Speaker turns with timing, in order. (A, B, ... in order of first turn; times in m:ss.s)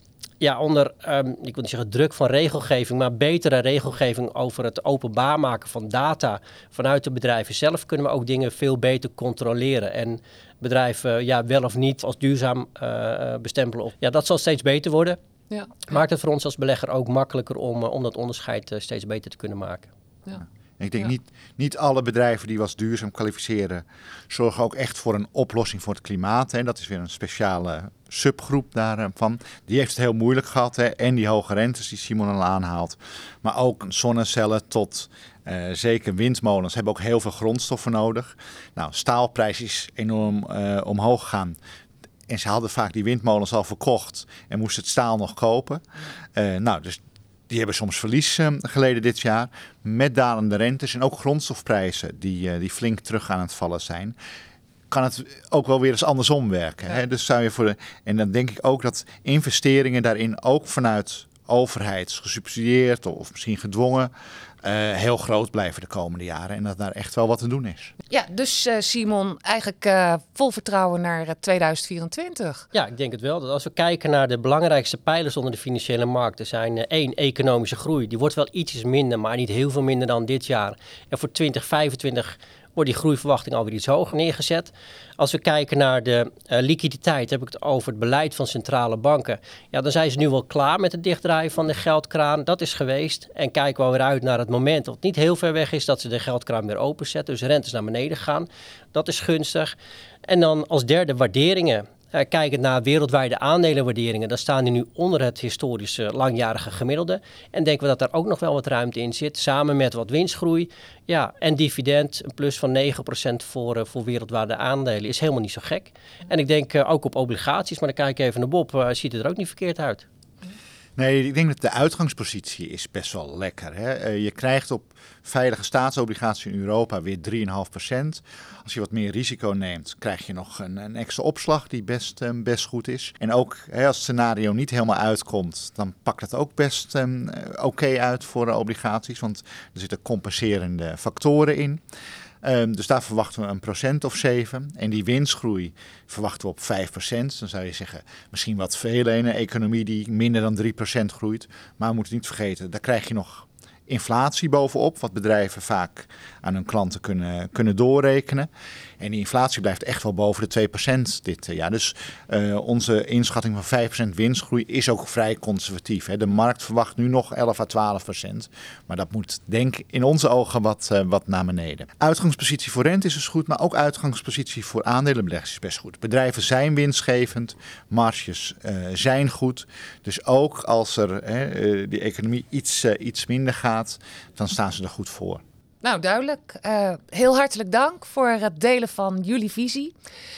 0:00.4-0:15.2 A
0:15.5-0:15.9 B
0:15.9-0:19.9 A
0:20.8-0:41.6 C
0:42.3-0:45.8 C
0:46.4-0:54.1 C
0:54.9-1:04.1 C
1:04.6-1:07.9 C
1:08.1-1:12.6 B
1:12.7-1:39.7 A
1:40.3-2:00.0 A
2:01.0-2:21.8 C
2:22.4-2:38.5 C
2:39.0-3:05.4 C
3:05.8-3:09.9 B